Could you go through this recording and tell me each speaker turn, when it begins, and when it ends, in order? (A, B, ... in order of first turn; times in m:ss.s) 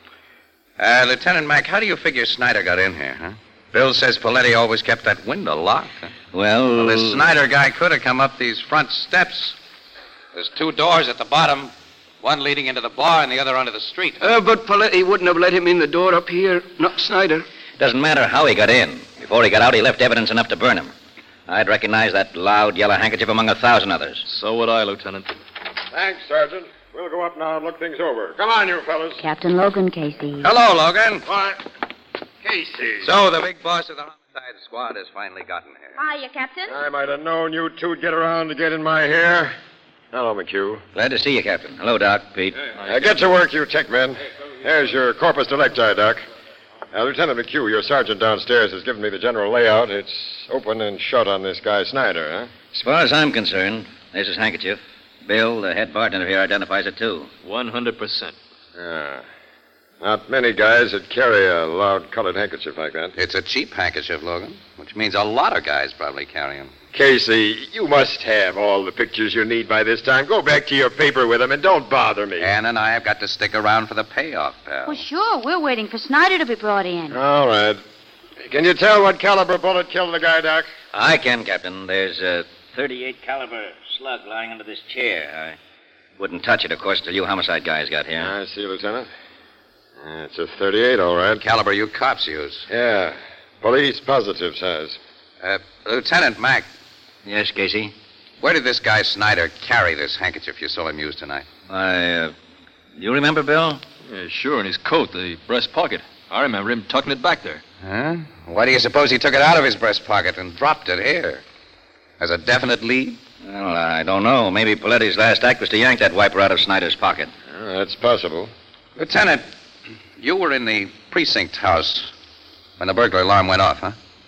0:00.8-0:06.1 A
0:06.3-0:07.3 B
0:06.8-0:09.6 A
0:10.3-0:14.2 A
0:14.2-0:17.4 C
0:17.8-0:20.9 B
0:21.5-0:24.2 B
0:24.2-0:25.3 D
0:25.9-0:29.2 E
0:29.2-0:30.5 F
0:30.4-0:31.2 A
0:31.2-0:31.6 E
0:32.4-0:33.1 E
0:33.0-0:36.0 A
0:36.0-0:36.7 F
0:36.7-0:39.5 E
0:40.1-0:40.8 E
0:40.9-0:42.6 B
0:42.8-0:46.2 E
0:46.9-0:52.5 E
0:52.7-0:57.3 B
0:57.4-0:58.3 D
0:58.8-0:59.2 E
1:00.0-1:03.1 E
1:03.2-1:06.7 A
1:06.9-1:12.5 E
1:12.4-1:15.0 A
1:14.8-1:17.2 F
1:17.1-1:17.8 E
1:18.4-1:20.7 E
1:20.9-1:25.6 B
1:26.2-1:28.3 B
1:28.2-1:29.1 E
1:30.0-1:31.4 E
1:31.4-1:32.7 A
1:32.7-1:35.0 E
1:35.4-1:36.7 A
1:37.2-1:37.9 B
1:38.4-1:41.4 A
1:41.7-1:42.3 B
1:43.0-1:43.8 B
1:44.1-1:47.6 D
1:47.8-1:51.4 A
1:52.2-1:53.2 A
1:53.4-1:57.3 B
1:57.5-1:58.5 E
1:59.0-1:59.4 A
2:00.2-2:02.1 A
2:02.8-2:04.0 A